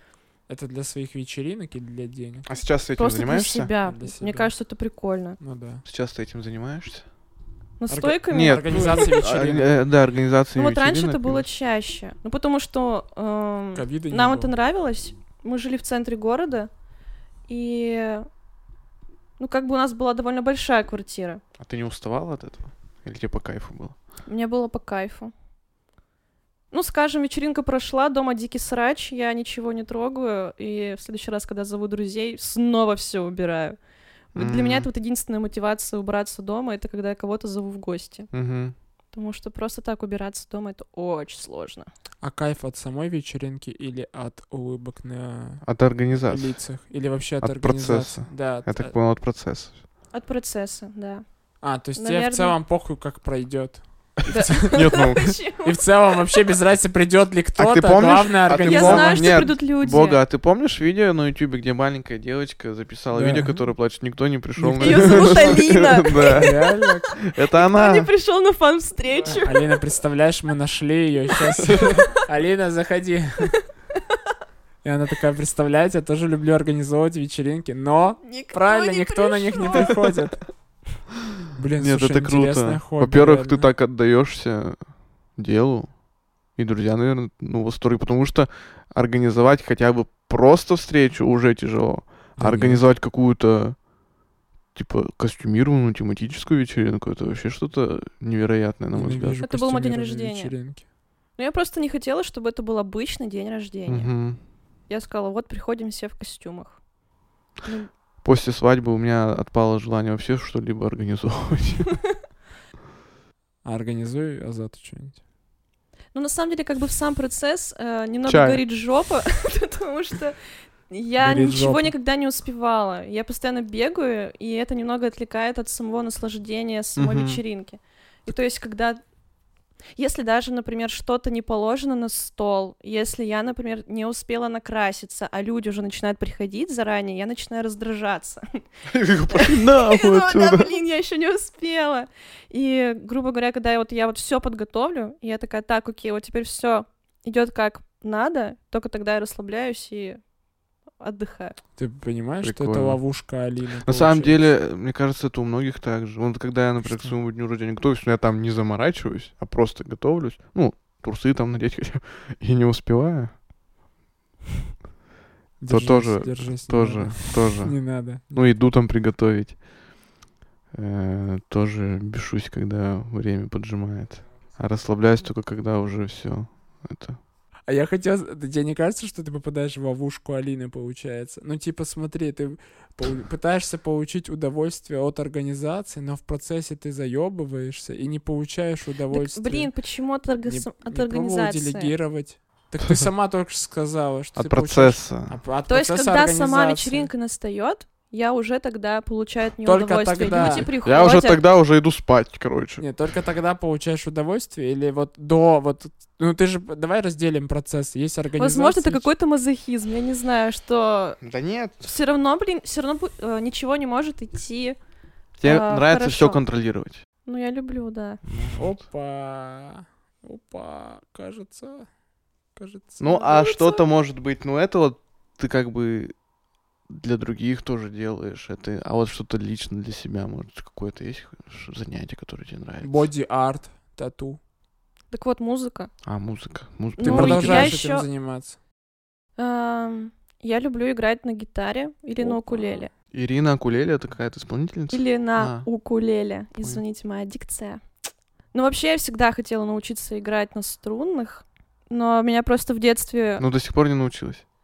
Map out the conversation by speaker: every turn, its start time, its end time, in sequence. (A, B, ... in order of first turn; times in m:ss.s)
0:00.5-0:02.4 A
0:02.4-0:03.7 B
0:03.0-0:05.4 C
0:03.8-0:04.5 A
0:05.4-0:05.8 A
0:05.8-0:07.0 B
0:07.8-0:09.2 C
0:07.9-0:09.7 A
0:08.3-0:11.4 B
0:10.5-0:16.7 C
0:13.7-0:14.5 A
0:17.5-0:18.3 C
0:19.4-0:21.4 C
0:21.6-0:24.0 B
0:24.2-0:25.3 C
0:26.7-0:33.8 C
0:34.3-0:38.3 C
0:34.4-0:34.9 B
0:38.3-0:38.7 B
0:39.1-0:41.9 C
0:42.2-0:48.9 A
0:45.6-0:46.7 B
0:47.4-0:49.8 B
0:50.1-0:51.2 C
0:51.6-0:54.7 A
0:51.9-0:52.6 C
0:54.3-0:55.8 C
0:54.7-0:55.4 B
0:55.6-0:59.4 A
0:57.6-1:08.1 B
0:58.5-1:00.2 C
1:03.1-1:03.7 A
1:04.6-1:05.6 A
1:04.8-1:06.8 C
1:06.3-1:07.1 A
1:07.5-1:09.6 C
1:09.3-1:13.6 A
1:11.7-1:12.0 B
1:14.8-1:20.4 A
1:18.2-1:20.0 C
1:21.6-1:23.7 A
1:21.8-1:24.8 B
1:25.4-1:25.9 B
1:26.6-1:33.8 B
1:32.4-1:32.8 A
1:34.7-1:39.4 B
1:38.9-1:40.8 A
1:39.4-1:40.5 C
1:41.4-1:44.1 C
1:43.9-1:44.4 B
1:44.9-1:46.8 C
1:47.6-1:47.9 C
1:48.2-1:52.0 B
1:53.6-1:55.2 A
1:56.1-2:00.4 C
1:58.2-1:58.6 B
2:00.9-2:09.0 C
2:01.2-2:01.9 A
2:07.0-2:07.4 B
2:10.0-2:18.6 C
2:18.9-2:20.8 B
2:19.3-2:30.2 C
2:31.0-2:31.6 C
2:31.8-2:34.4 A
2:32.4-2:33.0 B
2:33.8-2:43.3 B
2:36.8-2:37.2 A
2:45.6-2:48.5 A
2:45.7-2:49.6 B
2:50.7-2:57.2 B
2:57.7-3:09.7 A
3:09.1-3:11.9 C
3:10.4-3:17.1 A
3:14.3-3:15.4 B
3:15.7-3:21.4 C
3:19.6-3:20.7 A
3:20.3-3:22.8 B
3:22.8-3:29.1 A
3:28.4-3:31.2 C
3:31.2-3:31.9 B
3:31.8-3:34.8 C
3:35.4-3:37.0 B
3:35.4-3:36.4 C
3:37.2-3:38.2 C
3:38.2-3:38.7 B
3:38.6-3:41.9 A
3:42.6-3:43.0 A
3:43.0-3:46.1 B
3:43.0-3:43.8 C
3:46.9-3:53.1 B
3:52.8-3:54.4 A
3:55.1-3:55.9 C
3:56.0-3:57.8 B
3:57.0-3:58.0 C
3:57.0-3:58.6 A
3:59.4-4:02.9 C
4:02.2-4:02.5 B
4:03.1-4:05.7 B
4:04.9-4:07.8 C
4:08.5-4:13.4 C
4:13.4-4:14.4 B